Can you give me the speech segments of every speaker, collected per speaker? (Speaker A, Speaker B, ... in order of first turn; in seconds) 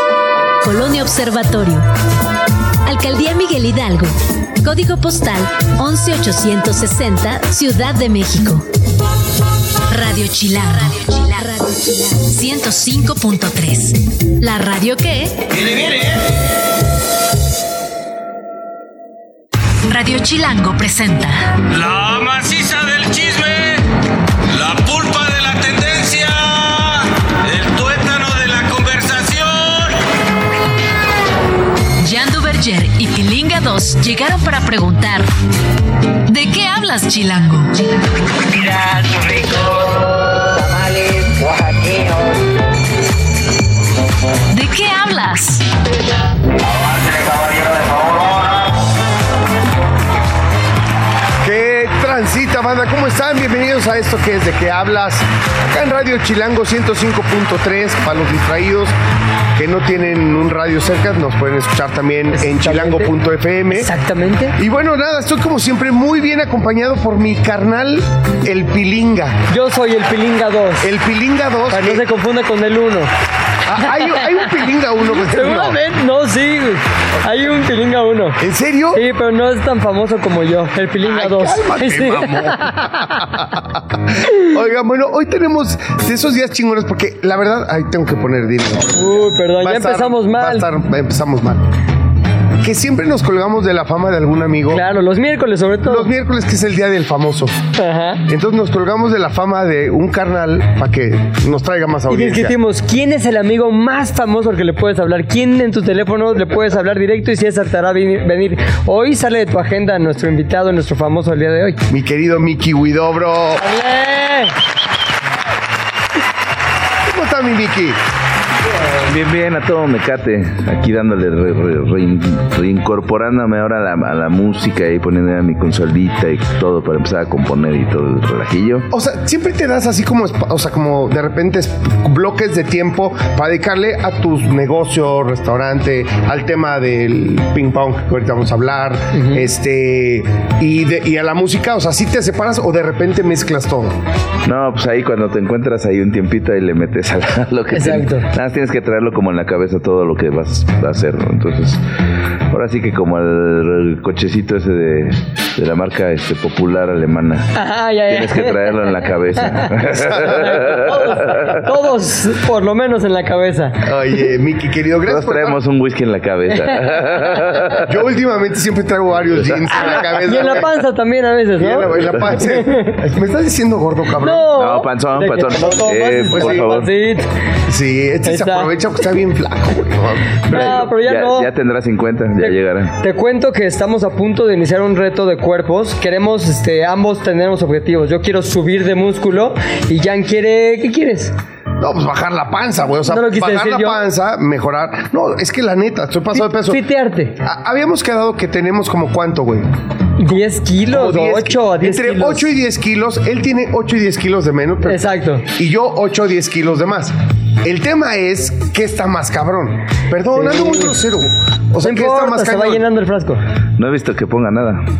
Speaker A: 0.6-1.9, 2.8-8.7, 9.9-15.4, 19.9-21.6, 32.0-35.3, 36.2-37.8, 44.5-45.6
Speaker B: 15.5-16.2, 21.7-23.8, 24.5-30.0, 38.6-39.8, 40.5-42.1, 46.7-48.7
Speaker C: 51.4-59.0, 59.6-63.9, 64.6-69.5, 70.8-72.0, 73.7-75.8, 78.4-79.0, 81.0-91.7, 92.6-94.8, 95.9-97.6, 98.3-102.5, 111.9-113.6, 117.1-118.0, 128.9-144.0, 159.9-160.4, 163.8-165.6, 167.8-170.7, 171.6-174.5, 176.3-176.7, 177.7-180.9, 191.8-196.8, 197.4-199.7, 200.9-212.8
Speaker D: 62.3-63.1, 63.7-64.6, 69.5-70.9, 71.7-73.1, 73.8-78.4, 78.9-83.2, 89.0-90.7, 94.7-96.1, 97.8-98.2, 102.1-111.8, 113.6-114.5, 139.1-139.5, 147.7-148.3, 157.6-163.9, 170.2-173.0, 174.2-177.3, 178.3-178.7, 180.5-181.5, 182.4-191.3, 193.1-194.0, 196.3-197.4, 200.2-202.5, 204.8-205.5, 210.3-210.9, 211.8-213.4
Speaker E: 119.0-128.9, 144.5-151.8, 152.5-157.5, 158.1-161.5, 165.1-167.9, 174.6-176.9, 180.5-183.0, 213.8-214.9